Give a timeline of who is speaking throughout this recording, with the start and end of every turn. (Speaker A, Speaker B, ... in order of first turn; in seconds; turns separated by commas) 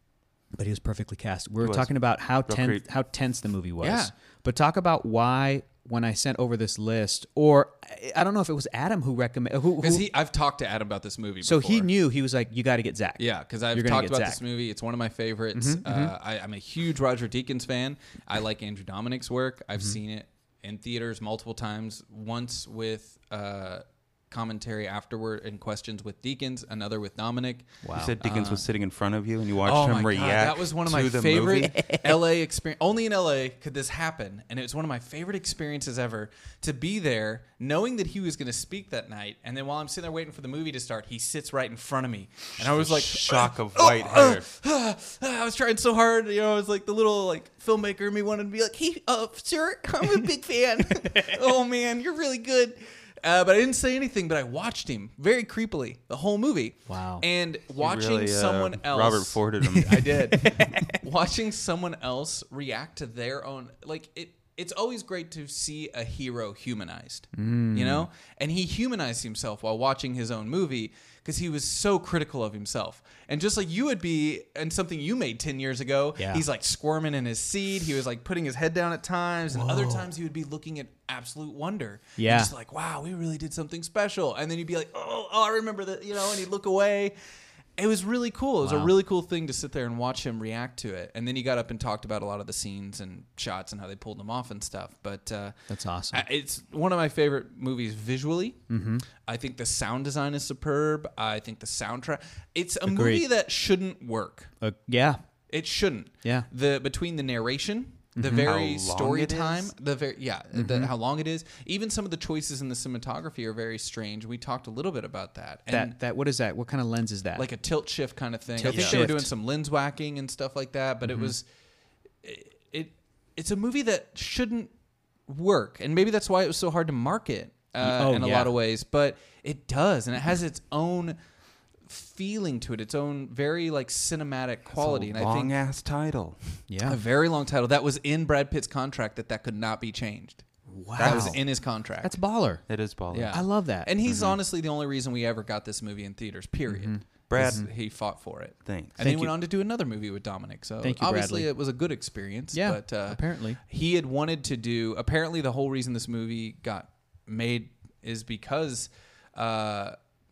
Speaker A: 0.5-10.1, Speaker B: 1.6-1.9, Speaker B: 2.4-2.8, Speaker C: 3.8-4.1, Speaker C: 9.8-11.9, Speaker A: 11.4-14.4, Speaker C: 13.2-28.6, Speaker A: 15.6-16.1, Speaker A: 27.8-28.1, Speaker B: 27.9-32.0, Speaker C: 29.6-87.2, Speaker B: 42.6-44.5, Speaker A: 51.0-51.4, Speaker A: 56.9-57.2, Speaker B: 57.8-60.6, Speaker A: 67.3-68.1, Speaker A: 76.2-76.4, Speaker A: 79.6-80.0, Speaker A: 82.2-82.5, Speaker C: 87.8-95.6, Speaker A: 88.6-88.9, Speaker A: 95.7-96.2, Speaker C: 96.1-98.6, Speaker A: 98.7-99.0, Speaker C: 99.2-104.5, Speaker A: 102.9-103.2, Speaker A: 104.6-105.2, Speaker C: 105.5-116.0, Speaker A: 108.2-108.5, Speaker B: 108.4-109.7, Speaker A: 110.5-110.9, Speaker A: 115.7-117.5, Speaker C: 117.4-121.5, Speaker A: 118.6-119.3, Speaker B: 118.7-119.1, Speaker A: 121.1-121.3, Speaker C: 122.2-124.7, Speaker C: 125.3-131.2, Speaker A: 127.8-128.5, Speaker C: 131.9-135.5, Speaker B: 134.7-136.6, Speaker A: 136.7-137.0, Speaker C: 136.8-140.4, Speaker A: 140.7-141.4, Speaker B: 141.0-141.4, Speaker C: 141.0-142.2, Speaker A: 142.0-142.7, Speaker B: 142.7-143.4, Speaker C: 143.1-160.0, Speaker A: 143.3-143.9, Speaker B: 144.1-144.4, Speaker A: 146.7-147.7, Speaker B: 147.3-147.7, Speaker B: 148.7-149.0, Speaker A: 149.0-149.3, Speaker A: 150.8-151.5, Speaker A: 152.5-153.6